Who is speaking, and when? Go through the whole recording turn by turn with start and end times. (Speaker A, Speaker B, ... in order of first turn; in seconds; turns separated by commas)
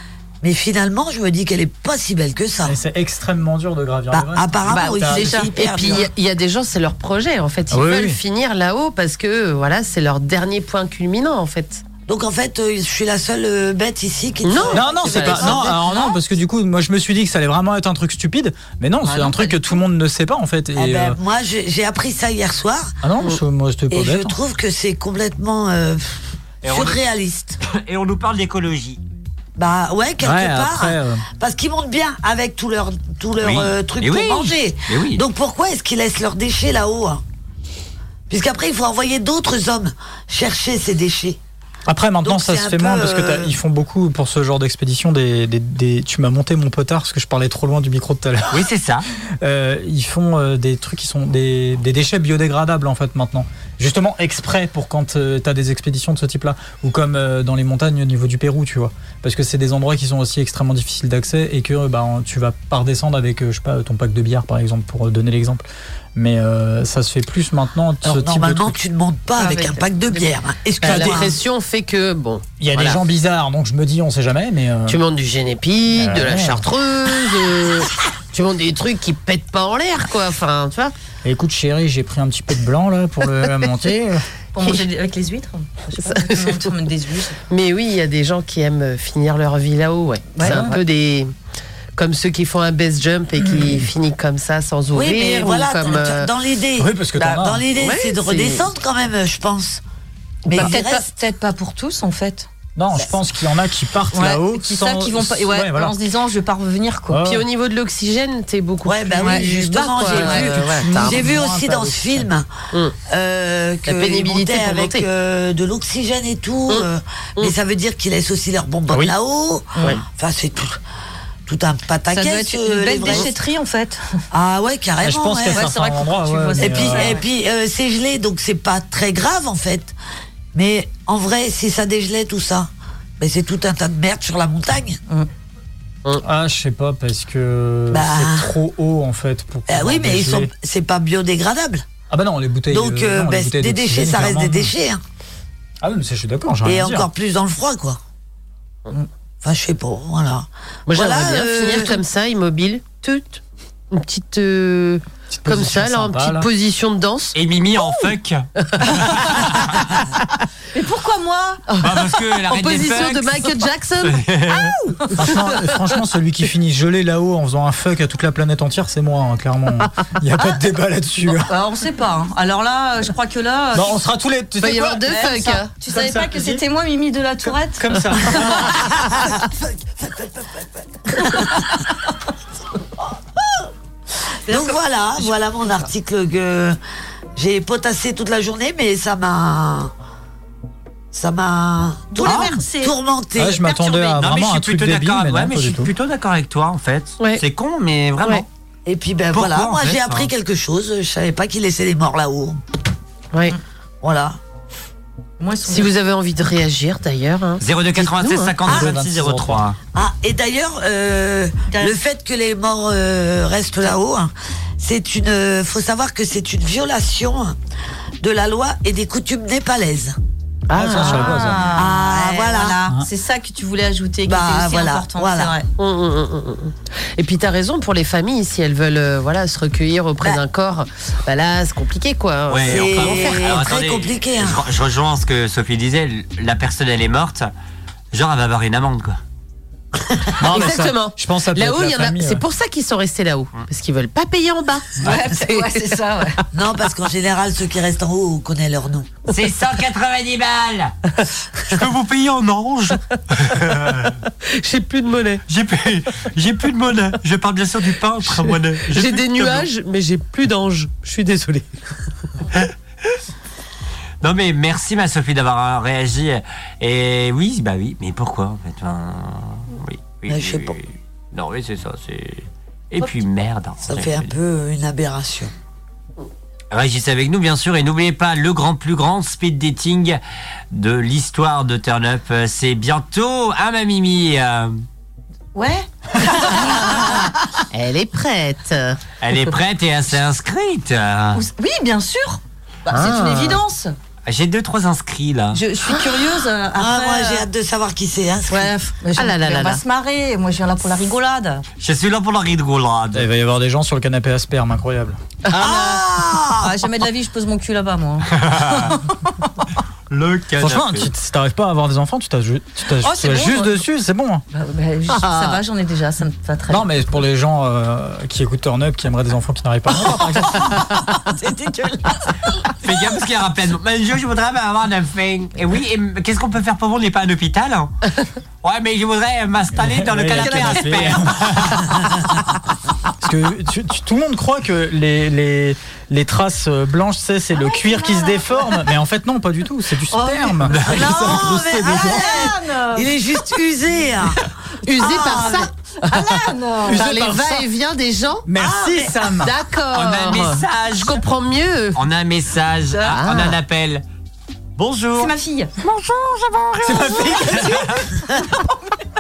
Speaker A: 0.4-2.8, Speaker B: 2.6-5.5, Speaker A: 4.1-6.1, Speaker C: 4.7-5.9, Speaker D: 5.2-11.8, Speaker B: 7.7-8.2, Speaker A: 12.1-16.1, Speaker D: 14.4-15.7, Speaker B: 14.7-21.2, Speaker C: 19.1-19.7, Speaker A: 20.8-22.9, Speaker B: 23.0-24.4, Speaker A: 23.9-27.6, Speaker E: 26.6-27.0, Speaker E: 27.6-29.0, Speaker A: 29.6-37.2, Speaker B: 30.2-31.3, Speaker E: 33.4-35.2, Speaker A: 38.3-41.4, Speaker B: 41.9-48.6, Speaker A: 42.2-43.5, Speaker E: 48.5-49.0, Speaker B: 49.4-68.8, Speaker A: 68.0-71.4, Speaker C: 69.4-70.2, Speaker D: 70.8-73.0, Speaker B: 70.8-71.3, Speaker B: 72.6-75.0, Speaker D: 74.9-80.9, Speaker B: 75.9-76.7, Speaker B: 81.2-84.2, Speaker C: 84.5-87.4, Speaker D: 86.0-86.7, Speaker D: 87.5-91.3, Speaker C: 90.4-90.7, Speaker B: 90.4-90.8, Speaker D: 92.0-96.3, Speaker A: 94.9-99.8, Speaker B: 96.8-97.7, Speaker D: 97.8-98.7, Speaker A: 100.5-101.1, Speaker D: 100.5-100.8, Speaker C: 100.5-103.1, Speaker B: 102.8-106.0, Speaker C: 104.1-107.3, Speaker B: 107.1-107.5, Speaker D: 107.2-111.3, Speaker A: 108.8-112.5, Speaker C: 109.2-109.5, Speaker B: 110.0-112.3, Speaker C: 110.1-110.4, Speaker A: 113.1-120.8, Speaker D: 113.9-115.1, Speaker D: 116.7-117.5, Speaker B: 118.9-119.2, Speaker A: 121.5-123.3, Speaker C: 122.1-124.0, Speaker A: 124.3-125.7, Speaker B: 125.0-127.2, Speaker C: 125.4-127.3, Speaker A: 126.6-129.9, Speaker A: 130.5-132.7, Speaker A: 133.2-135.0, Speaker B: 136.2-140.5, Speaker A: 137.9-138.5, Speaker A: 139.7-141.9, Speaker B: 142.1-144.7, Speaker A: 142.7-145.0, Speaker B: 145.8-147.1, Speaker A: 146.7-148.0, Speaker A: 149.4-152.0, Speaker D: 150.9-157.3, Speaker B: 155.3-156.5, Speaker E: 157.3-159.9, Speaker D: 158.7-159.1, Speaker C: 160.8-161.8, Speaker D: 161.7-164.3, Speaker E: 161.8-163.4, Speaker E: 164.0-164.8, Speaker C: 164.5-165.8, Speaker B: 165.1-171.5, Speaker C: 171.3-174.0, Speaker B: 173.7-176.7, Speaker D: 174.6-175.7, Speaker C: 175.1-178.7, Speaker B: 177.4-179.0, Speaker A: 179.5-181.7, Speaker A: 184.5-186.8, Speaker C: 184.5-185.3, Speaker A: 187.4-189.9, Speaker A: 191.1-193.6, Speaker C: 192.1-193.0, Speaker E: 192.2-192.6, Speaker B: 193.4-195.9, Speaker E: 193.9-198.5, Speaker A: 198.9-202.6, Speaker E: 199.3-200.3, Speaker A: 204.0-204.4, Speaker C: 205.4-205.9, Speaker D: 205.7-208.6, Speaker E: 207.6-209.8, Speaker B: 208.7-209.7, Speaker A: 209.9-217.6, Speaker C: 211.7-212.0, Speaker A: 218.2-220.2, Speaker D: 220.7-221.5, Speaker B: 220.7-221.7, Speaker C: 220.9-225.7, Speaker A: 221.7-222.8, Speaker A: 224.3-225.6, Speaker D: 225.8-233.6, Speaker E: 232.5-237.5, Speaker A: 232.7-234.6, Speaker E: 238.1-239.2, Speaker B: 240.4-242.4, Speaker D: 240.4-245.8, Speaker C: 245.0-246.4, Speaker A: 246.5-249.1, Speaker E: 249.3-250.9, Speaker E: 251.6-254.1, Speaker D: 254.4-255.4, Speaker E: 255.5-259.7, Speaker D: 258.4-261.8, Speaker E: 264.2-274.3, Speaker A: 270.3-270.8, Speaker A: 273.8-275.5, Speaker E: 276.7-280.2, Speaker E: 280.7-284.8, Speaker C: 285.6-287.2, Speaker D: 287.7-289.0, Speaker E: 289.2-291.4, Speaker C: 291.4-293.9, Speaker D: 292.9-293.6, Speaker E: 294.2-295.6, Speaker C: 295.5-297.5, Speaker A: 296.8-298.7, Speaker C: 298.5-301.6, Speaker D: 299.2-299.8, Speaker E: 301.8-303.3, Speaker B: 303.1-305.2, Speaker A: 305.5-306.7, Speaker C: 305.5-309.2, Speaker E: 308.3-308.9, Speaker E: 310.1-311.1, Speaker B: 310.6-314.4, Speaker C: 313.0-313.8, Speaker C: 314.5-316.9, Speaker D: 315.3-315.6, Speaker B: 316.7-320.9, Speaker E: 322.8-327.9, Speaker E: 328.6-331.9, Speaker B: 329.7-332.2, Speaker C: 330.3-331.2, Speaker B: 333.2-342.3, Speaker C: 337.5-338.8, Speaker C: 340.1-343.5, Speaker E: 340.7-341.1, Speaker A: 340.8-344.4, Speaker D: 344.8-346.4, Speaker C: 344.9-347.4, Speaker A: 345.0-345.7, Speaker B: 346.8-347.6, Speaker D: 346.9-348.5, Speaker B: 348.5-349.5, Speaker A: 348.6-349.0, Speaker D: 349.3-352.0, Speaker E: 349.9-351.2, Speaker E: 351.9-354.1, Speaker C: 352.9-353.2, Speaker D: 353.1-353.6, Speaker E: 354.8-358.0, Speaker C: 355.1-355.7, Speaker B: 356.8-358.1, Speaker C: 357.4-357.9